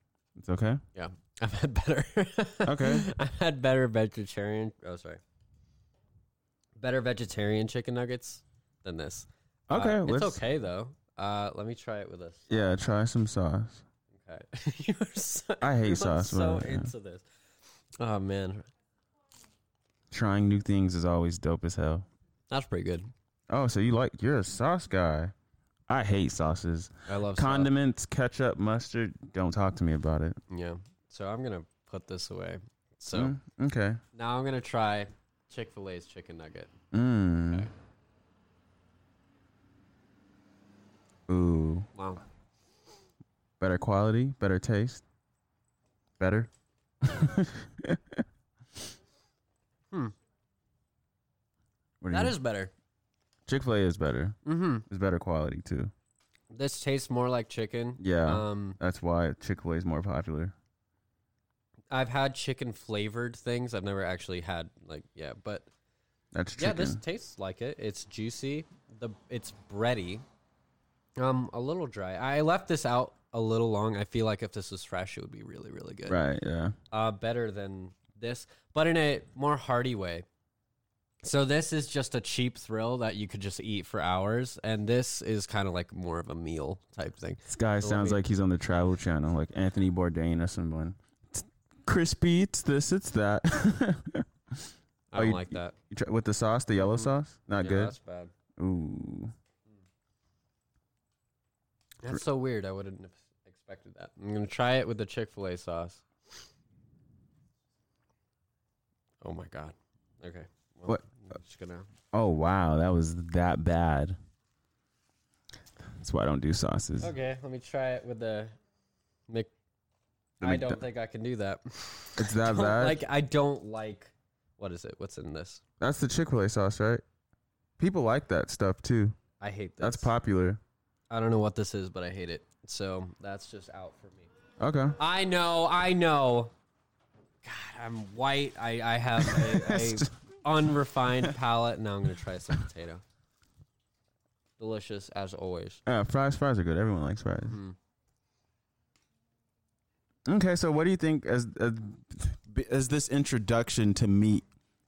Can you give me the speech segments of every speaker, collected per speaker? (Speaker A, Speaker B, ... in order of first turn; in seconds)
Speaker A: 0.3-0.8, 2.6-3.1, 9.7-10.4, 12.5-13.8, 15.6-16.9, 20.1-22.1, 23.5-25.3, 25.9-30.4, 33.1-34.0, 36.9-37.7, 41.3-41.9, 43.6-45.0, 46.2-46.5, 47.0-48.2, 52.0-52.3, 53.5-54.4, 54.9-55.9, 58.0-60.5, 66.3-67.0, 76.1-76.7, 87.5-97.9, 98.6-99.3, 112.1-114.2, 116.0-117.1, 120.4-120.8, 122.2-123.0, 125.8-127.0, 127.8-129.2, 129.8-130.6, 134.6-135.0, 139.2-140.1, 145.8-147.6, 150.3-154.4
Speaker B: 0.9-5.2, 6.8-12.5, 14.1-17.2, 18.0-18.7, 22.5-23.1, 27.1-27.7, 30.5-33.3, 34.1-36.7, 41.9-42.2, 52.1-52.7, 54.4-54.9, 56.5-58.8, 61.9-65.7, 66.6-70.2, 71.2-76.2, 76.9-80.2, 81.2-88.2, 95.1-95.7, 96.8-98.3, 102.0-106.4, 109.2-111.9, 117.0-118.5, 120.4-125.6, 129.4-130.1, 131.1-134.3, 135.0-136.5, 137.4-143.0, 144.6-145.8, 147.4-147.8